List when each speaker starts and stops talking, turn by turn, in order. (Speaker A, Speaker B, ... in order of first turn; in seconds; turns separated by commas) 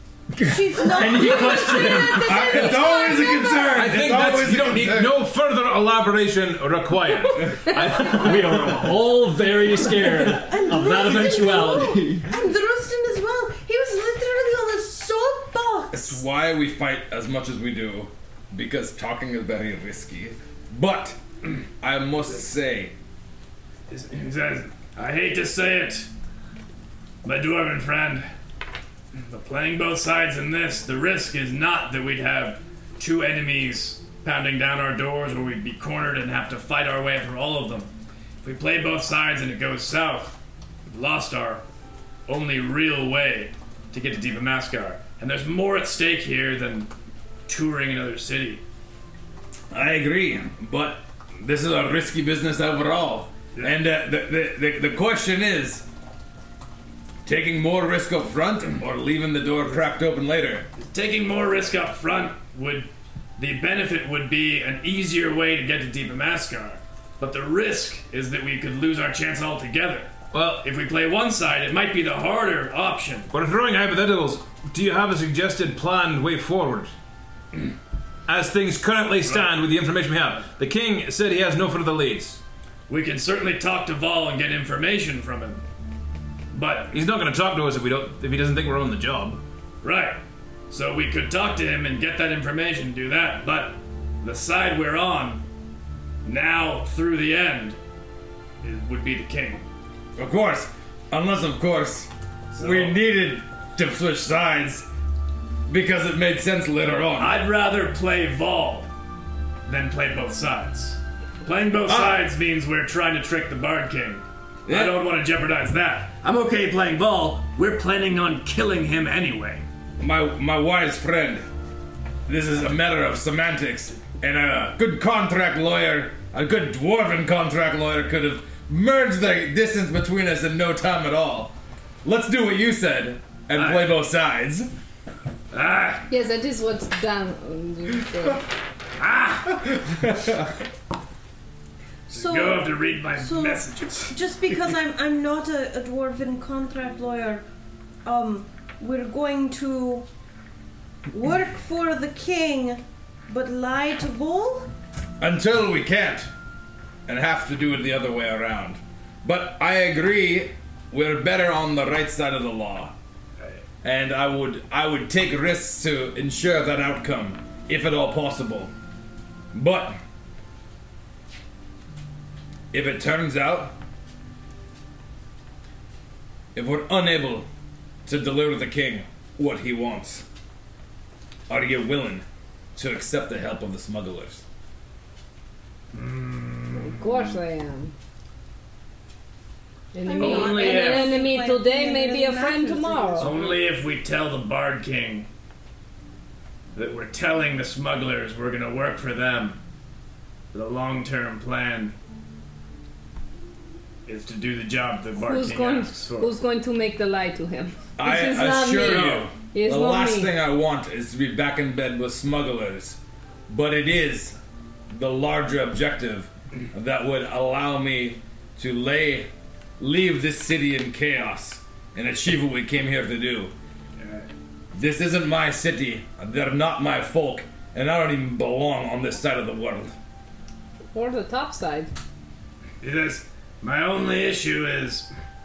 Speaker A: 0.4-2.7, Speaker B: 0.4-3.8, Speaker C: 2.2-5.3, Speaker D: 3.8-9.2, Speaker E: 7.5-8.1, Speaker A: 8.0-12.2, Speaker B: 9.9-16.2, Speaker C: 15.9-21.2, Speaker C: 21.8-22.9, Speaker F: 23.9-26.1, Speaker F: 27.2-28.3, Speaker F: 29.1-37.9, Speaker F: 38.4-41.6, Speaker F: 42.3-46.9, Speaker F: 47.5-48.6, Speaker C: 49.7-55.9, Speaker C: 57.2-60.7, Speaker F: 60.8-73.3, Speaker D: 70.3-70.7, Speaker D: 73.3-76.9, Speaker D: 78.3-82.4, Speaker F: 79.2-79.6, Speaker F: 82.9-85.6, Speaker F: 86.5-86.9, Speaker D: 86.9-89.4, Speaker F: 89.8-95.4, Speaker F: 96.2-97.8, Speaker F: 98.6-99.7, Speaker C: 100.2-104.9, Speaker F: 102.5-103.0, Speaker C: 105.7-107.5, Speaker F: 107.2-108.9, Speaker F: 109.7-119.6, Speaker C: 111.9-112.3, Speaker C: 114.7-115.1, Speaker C: 120.0-121.5, Speaker C: 122.3-131.5, Speaker C: 132.0-134.7, Speaker F: 133.6-134.0, Speaker F: 135.5-136.1, Speaker E: 136.1-138.4, Speaker F: 139.0-140.1, Speaker C: 139.7-140.4, Speaker F: 142.1-144.2, Speaker B: 142.1-147.4, Speaker B: 148.1-150.1, Speaker B: 151.1-154.7, Speaker C: 155.2-156.3, Speaker C: 157.1-162.9, Speaker C: 163.8-168.7, Speaker C: 169.5-170.0, Speaker C: 172.7-173.8, Speaker C: 176.5-177.5, Speaker C: 178.1-180.2, Speaker C: 181.5-184.4, Speaker F: 185.9-187.4, Speaker E: 186.7-187.9, Speaker E: 189.9-193.5, Speaker B: 190.0-193.7, Speaker F: 190.2-191.2, Speaker F: 193.2-195.3, Speaker F: 196.8-199.6, Speaker F: 200.5-201.9, Speaker F: 204.1-206.3, Speaker E: 205.2-210.3, Speaker C: 208.0-214.4, Speaker C: 214.9-223.5, Speaker F: 224.0-224.3, Speaker C: 224.7-229.9, Speaker E: 230.9-231.9, Speaker F: 232.8-235.1